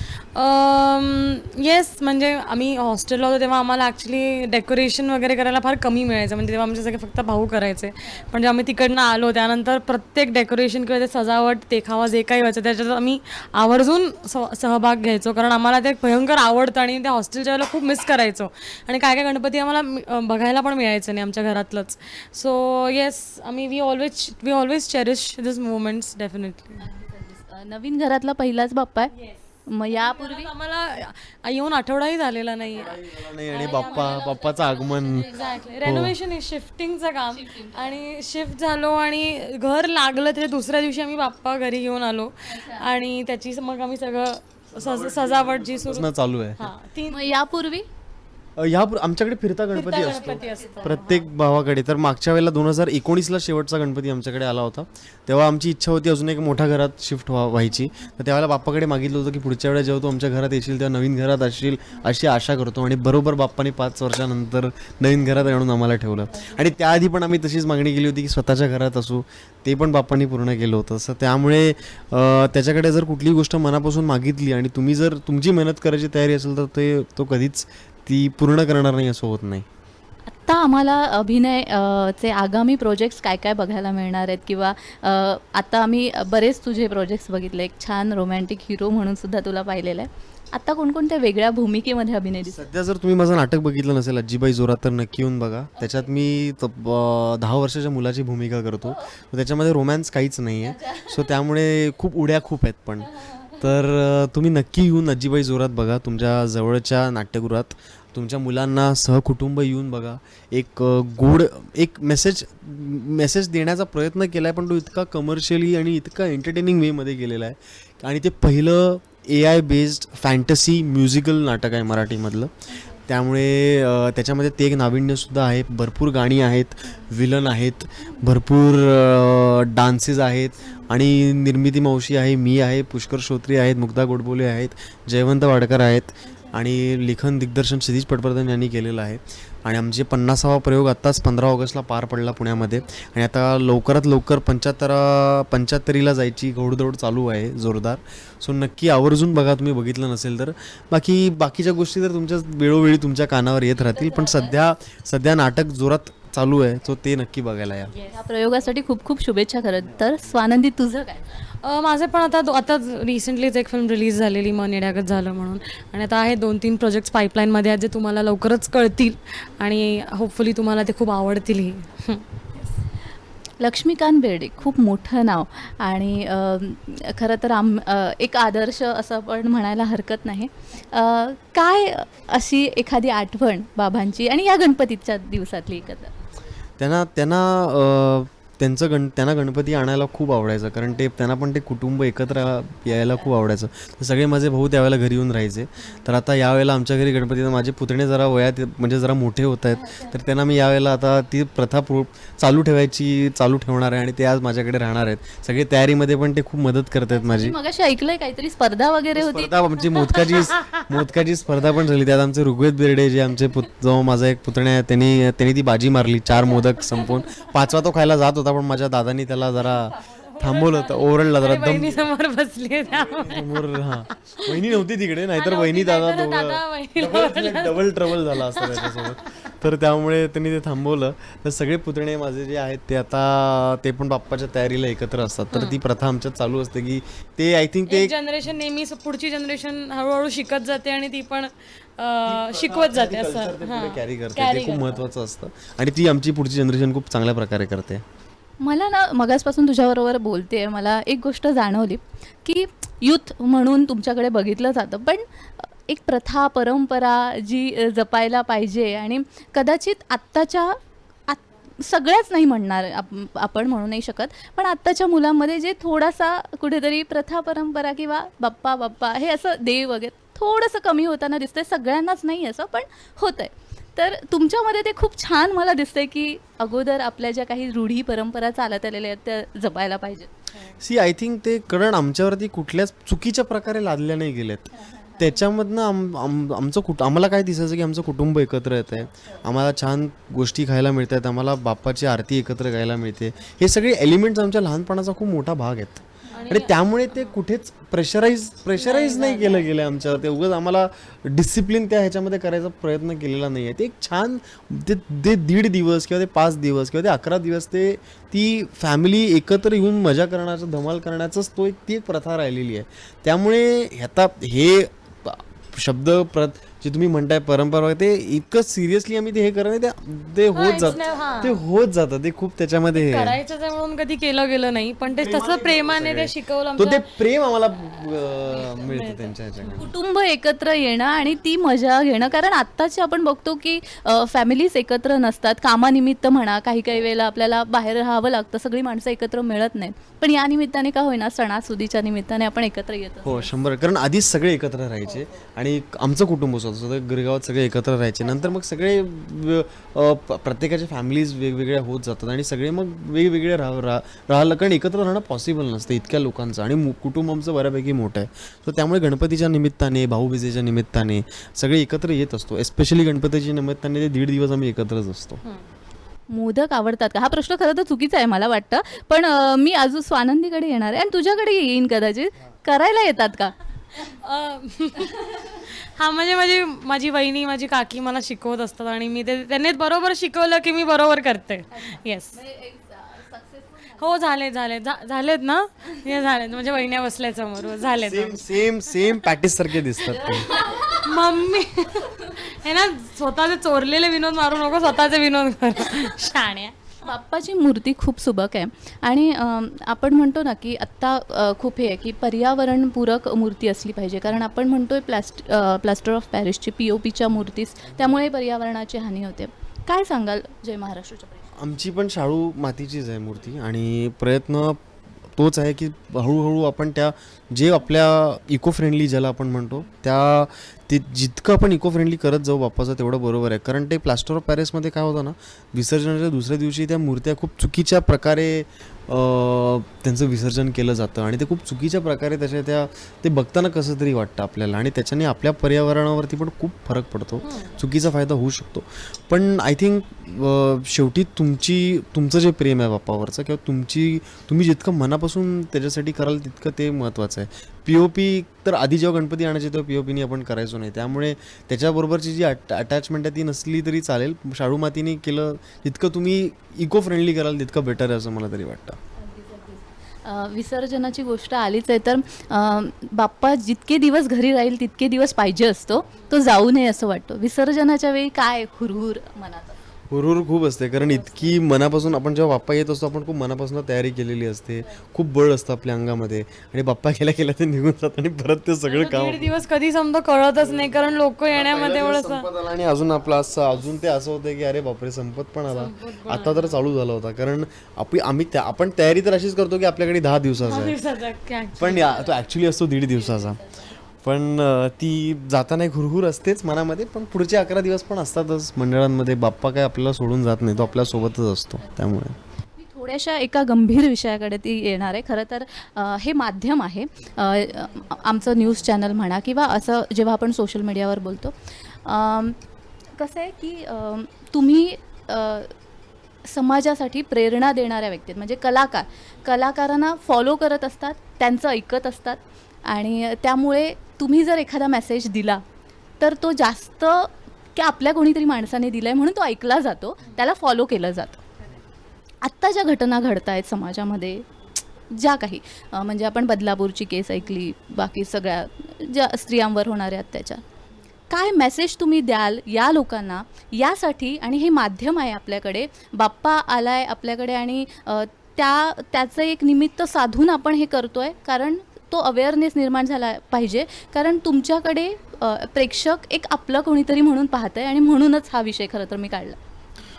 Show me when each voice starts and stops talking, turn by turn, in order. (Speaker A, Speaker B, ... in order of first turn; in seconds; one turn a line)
Speaker A: 0.3-26.8
Speaker B: 26.8-29.1
Speaker A: 29.1-34.4
Speaker B: 29.7-30.5
Speaker C: 32.6-35.3
Speaker B: 33.5-35.9
Speaker A: 35.1-47.3
Speaker C: 35.8-36.1
Speaker B: 37.3-38.0
Speaker B: 42.4-42.8
Speaker C: 44.7-46.7
Speaker B: 47.1-47.9
Speaker C: 48.5-79.6
Speaker A: 49.7-51.3
Speaker B: 50.0-51.0
Speaker B: 80.2-92.6
Speaker C: 92.5-103.1
Speaker B: 95.8-96.1
Speaker B: 98.8-99.1
Speaker B: 100.6-101.3
Speaker B: 103.2-103.6
Speaker C: 103.6-122.5
Speaker C: 123.0-157.9
Speaker B: 136.3-136.6
Speaker B: 153.8-154.5
Speaker A: 157.9-158.2
Speaker B: 158.1-161.3
Speaker A: 161.6-172.2
Speaker B: 173.6-186.1
Speaker C: 186.8-207.6
Speaker B: 199.7-200.2
Speaker B: 207.1-209.5
Speaker C: 209.1-222.1
Speaker A: 210.2-210.6
Speaker A: 216.6-217.5
Speaker A: 220.0-224.8
Speaker C: 222.9-238.1
Speaker A: 225.3-229.4
Speaker A: 235.5-235.8
Speaker A: 237.9-245.0
Speaker C: 242.2-248.0
Speaker B: 248.6-280.3
Speaker C: 280.8-323.4
Speaker B: 284.8-285.2
Speaker B: 296.2-296.6
Speaker A: 296.3-297.4
Speaker A: 298.7-299.7
Speaker A: 320.5-321.6
Speaker A: 322.9-327.1
Speaker C: 325.1-329.9
Speaker A: 328.5-329.9
Speaker B: 329.7-343.5
Speaker C: 343.2-365.4
Speaker B: 366.3-373.5
Speaker A: 373.9-382.4
Speaker B: 381.7-384.3
Speaker A: 384.0-388.5
Speaker B: 385.9-386.2
Speaker C: 388.0-390.5
Speaker B: 390.1-391.1
Speaker A: 391.0-396.8
Speaker B: 392.0-392.3
Speaker B: 397.0-411.5
Speaker C: 411.6-414.8
Speaker C: 415.3-459.0
Speaker A: 437.4-437.8
Speaker B: 459.2-469.8
Speaker C: 470.1-479.6
Speaker A: 478.9-482.5
Speaker C: 480.6-480.9
Speaker C: 481.5-491.0
Speaker A: 485.7-486.8
Speaker A: 490.6-492.4
Speaker C: 491.8-493.6
Speaker B: 493.4-493.9
Speaker C: 494.2-502.3
Speaker B: 502.8-512.6
Speaker B: 513.2-515.7
Speaker B: 516.5-525.6
Speaker B: 526.2-531.4
Speaker B: 532.4-534.4
Speaker B: 535.1-540.6
Speaker B: 541.3-559.6